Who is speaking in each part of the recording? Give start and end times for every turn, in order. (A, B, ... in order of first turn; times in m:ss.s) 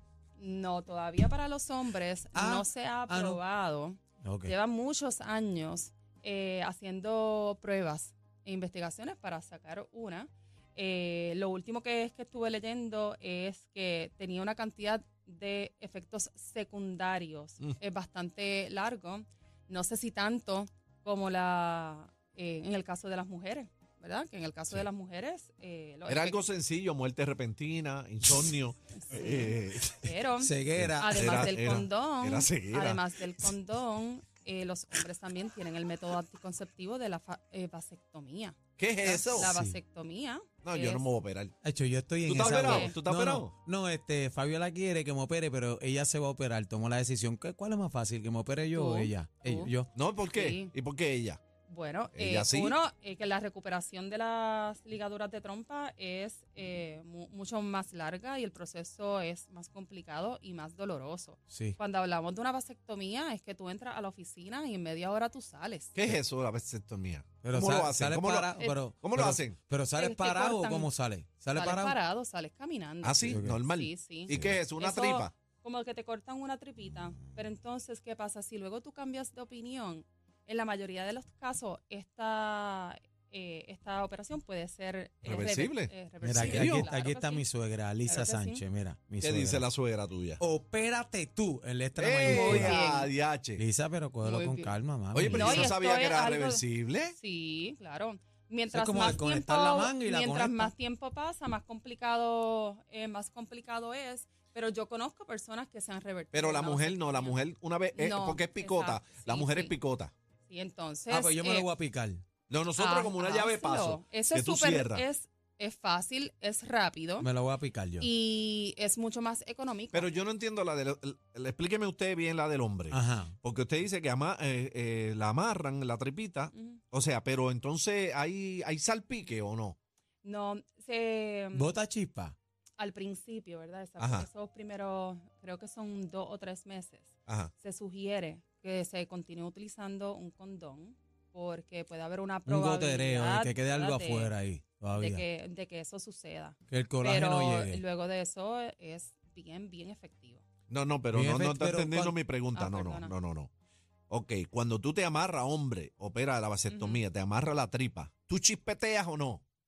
0:00.4-0:26.4 A
0:02.3-0:03.4 B
0:04.2-0:04.5 B
0:26.1-0:30.1 C
0:28.9-0:41.0 A
0:30.4-0:31.8 B
0:30.8-0:33.5 C
0:38.8-0:39.5 C
0:39.0-0:39.8 B
0:40.6-0:41.5 C
0:41.6-0:49.9 B
0:42.2-0:43.5 C
0:42.4-0:43.0 A
0:48.7-0:49.7 A
0:49.9-0:51.4 C
0:50.3-0:50.7 A
0:51.7-1:06.0 A
0:52.1-0:52.8 C
1:01.5-1:01.8 B
1:05.9-1:09.6 C
1:07.4-1:12.0 B
1:10.0-1:10.9 A
1:11.5-1:27.5 A
1:13.0-1:15.3 C
1:13.2-1:13.6 B
1:14.3-1:14.6 B
1:25.2-1:26.9 C
1:26.2-1:29.7 B
1:28.0-1:28.6 A
1:29.2-1:30.4 C
1:30.4-1:32.8 B
1:32.0-1:33.6 C
1:32.2-1:33.1 A
1:33.6-1:35.7 B
1:34.2-1:34.7 A
1:35.1-1:37.2 C
1:35.3-1:47.4 A
1:38.7-1:40.7 B
1:46.3-1:50.1 C
1:48.0-1:49.8 A
1:50.4-1:51.7 A
1:51.1-1:52.2 B
1:52.5-1:55.1 C
1:52.8-1:57.3 A
1:57.2-1:58.1 B
1:58.0-2:00.1 A
1:59.9-2:09.8 C
2:02.9-2:03.4 B
2:06.5-2:06.8 A
2:10.2-2:11.7 A
2:11.5-2:12.4 B
2:12.8-2:24.4 A
2:14.0-2:14.3 C
2:17.3-2:17.5 C
2:22.5-2:25.2 B
2:24.9-2:30.4 A
2:26.7-2:27.8 B
2:30.7-2:33.5 C
2:31.1-2:32.2 B
2:32.5-2:33.1 A
2:34.1-2:39.4 C
2:36.7-2:37.0 A